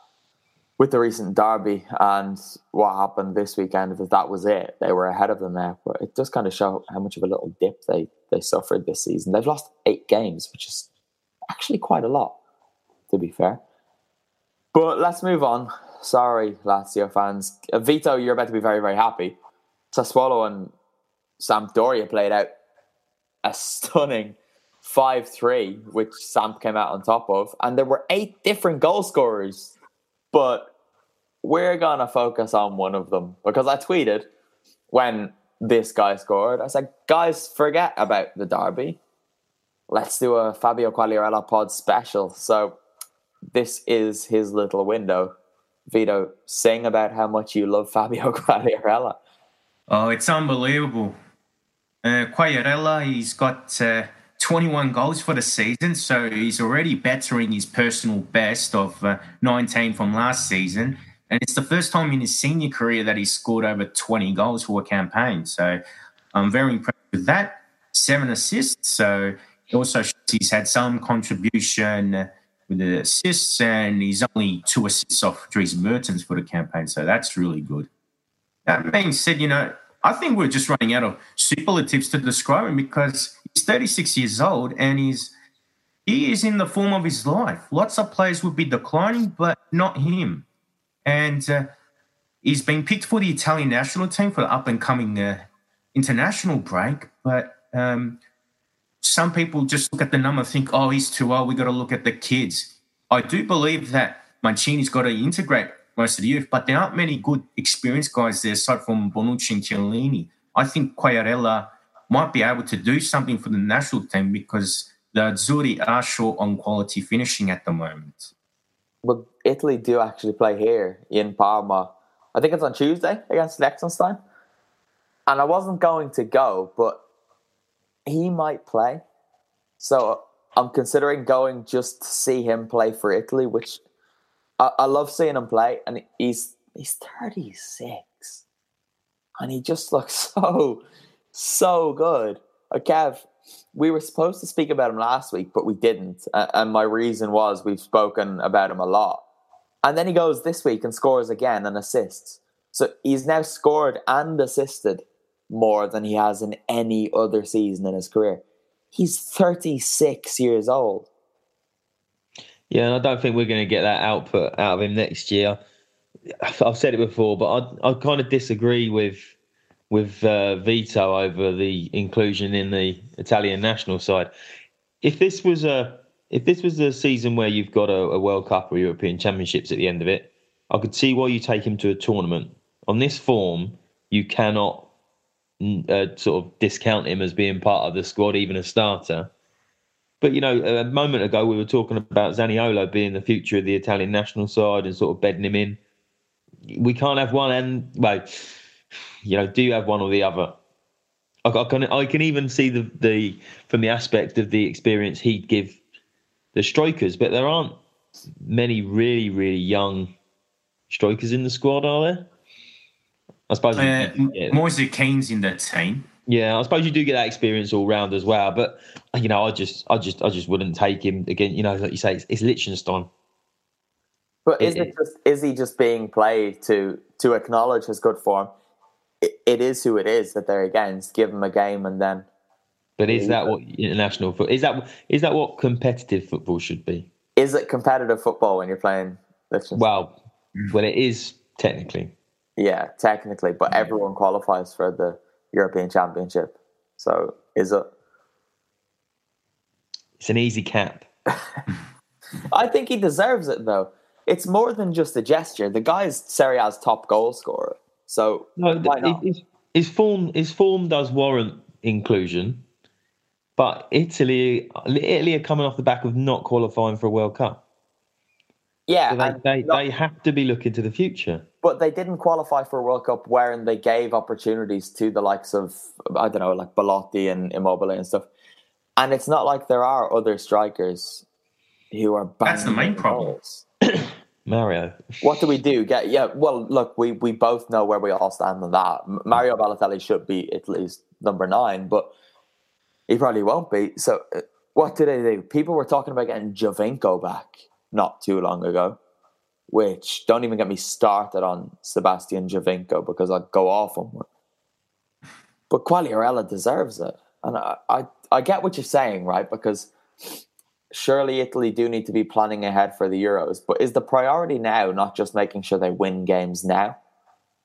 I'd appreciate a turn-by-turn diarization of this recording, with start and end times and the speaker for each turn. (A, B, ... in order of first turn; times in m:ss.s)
0:00.8-0:10.9 A
0:11.5-0:12.4 A
0:13.1-0:13.6 A
0:14.7-0:19.4 A
0:19.9-0:20.7 A
0:21.4-0:22.5 A
0:23.4-0:29.7 A
0:30.3-0:30.7 A
0:31.4-0:34.3 A
0:34.9-0:39.0 A
0:39.9-0:42.8 A
0:43.5-0:45.3 A
0:45.9-0:49.2 A
0:49.9-0:51.2 B
0:52.0-1:05.8 B
1:06.3-1:17.9 B
1:18.6-1:25.3 B
1:26.0-1:30.4 B
1:31.0-1:31.7 B
1:32.4-1:38.2 B
1:39.0-1:58.3 B
1:59.0-2:04.2 A
2:05.3-2:07.0 A
2:08.1-2:09.0 A
2:09.8-2:13.8 A
2:14.6-2:18.4 A
2:19.4-2:29.2 A
2:29.8-2:41.1 A
2:42.7-2:45.6 C
2:46.4-2:49.3 C
2:49.9-2:54.3 C
2:55.0-3:04.9 C
3:05.6-3:09.3 C
3:10.2-3:15.8 C
3:16.7-3:18.5 C
3:19.2-3:20.5 C
3:21.4-3:25.8 C
3:26.5-3:27.8 C
3:28.4-3:30.1 C
3:30.9-3:32.3 C
3:33.5-3:34.6 C
3:33.8-3:36.1 B
3:36.3-3:43.1 C
3:44.4-3:48.5 A
3:44.6-3:44.9 C
3:49.2-3:52.3 A
3:53.0-3:57.1 C
3:53.1-3:53.5 A
3:57.4-3:59.9 A
3:59.8-4:00.2 C
4:00.7-4:02.1 C
4:02.6-4:07.8 A
4:10.2-4:11.1 C
4:12.5-4:19.2 A
4:18.6-4:22.6 C
4:23.6-4:27.6 C
4:28.9-4:29.8 A
4:29.1-4:31.5 C
4:31.6-4:38.3 A
4:39.0-4:41.2 A
4:41.9-4:43.6 A
4:42.4-4:43.3 B
4:43.9-4:45.1 C
4:45.2-4:52.1 A
4:53.1-4:59.0 A
4:59.7-5:04.3 A
5:05.7-5:09.9 A
5:10.9-5:17.0 A